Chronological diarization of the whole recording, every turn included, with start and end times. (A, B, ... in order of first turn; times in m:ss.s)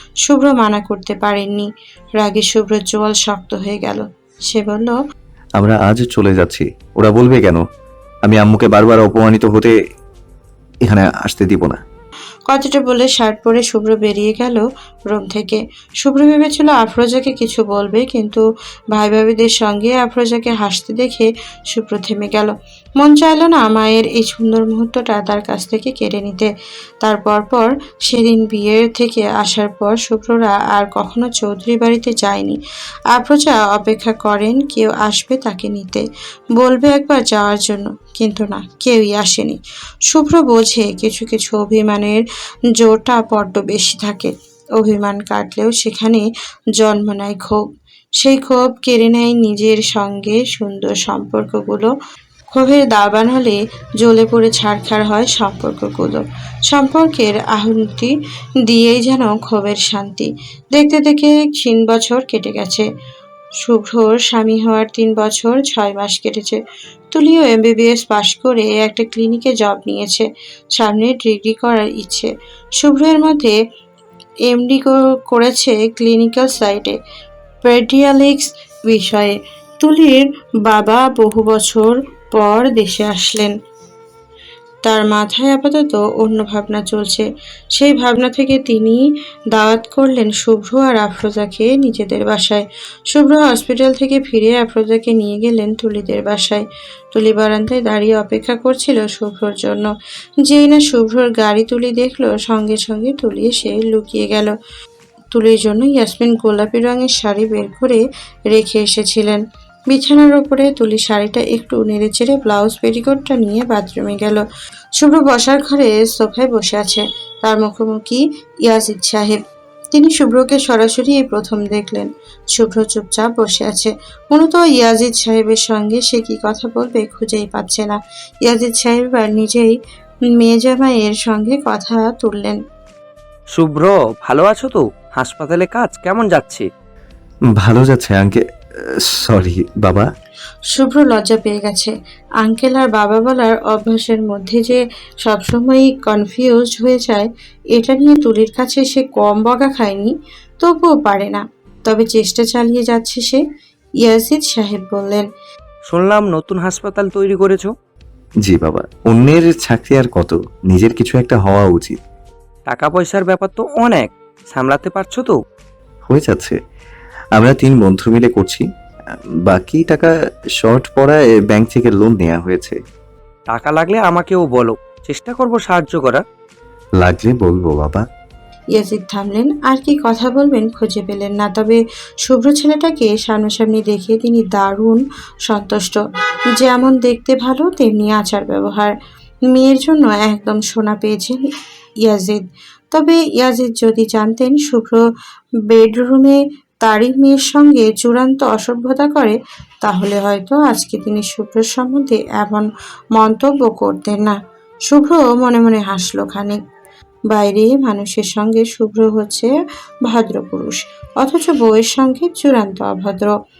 0:00.3-0:05.0 A
0:05.6-0:07.6 B
0:08.2-0:09.7 B
0:10.9-0:11.8 B
0:12.5-0:18.4 A
0:18.9-0:26.5 A
0:27.0-0:32.6 A
0:33.1-0:36.0 A
0:36.6-0:42.2 A
0:42.8-0:46.3 A
0:46.8-0:47.6 A
0:48.2-0:51.9 A
0:52.5-0:58.1 A
0:58.7-1:02.9 A
1:03.6-1:06.6 A
1:07.1-1:13.6 A
1:14.5-1:17.0 A
1:17.6-1:23.5 A
1:24.8-1:29.0 A
1:29.5-1:39.9 A
1:40.5-1:44.5 A
1:45.3-1:54.4 A
1:55.0-1:59.4 A
1:59.9-2:09.8 A
2:10.4-2:12.6 A
2:13.6-2:16.7 C
2:17.6-2:18.4 B
2:19.0-2:20.1 B
2:20.7-2:33.4 A
2:34.0-2:35.2 A
2:35.9-2:37.7 C
2:38.4-2:42.0 B
2:42.7-2:45.4 C
2:46.1-2:46.6 B
2:47.4-2:48.6 B
2:49.5-2:52.8 B
2:53.5-2:56.2 C
2:57.0-2:58.0 B
2:58.8-3:06.0 A
3:06.6-3:08.9 A
3:09.5-3:11.4 A
3:12.1-3:15.0 A
3:15.7-3:24.4 A
3:24.9-3:26.6 A
3:27.3-3:29.5 A
3:30.1-3:33.3 A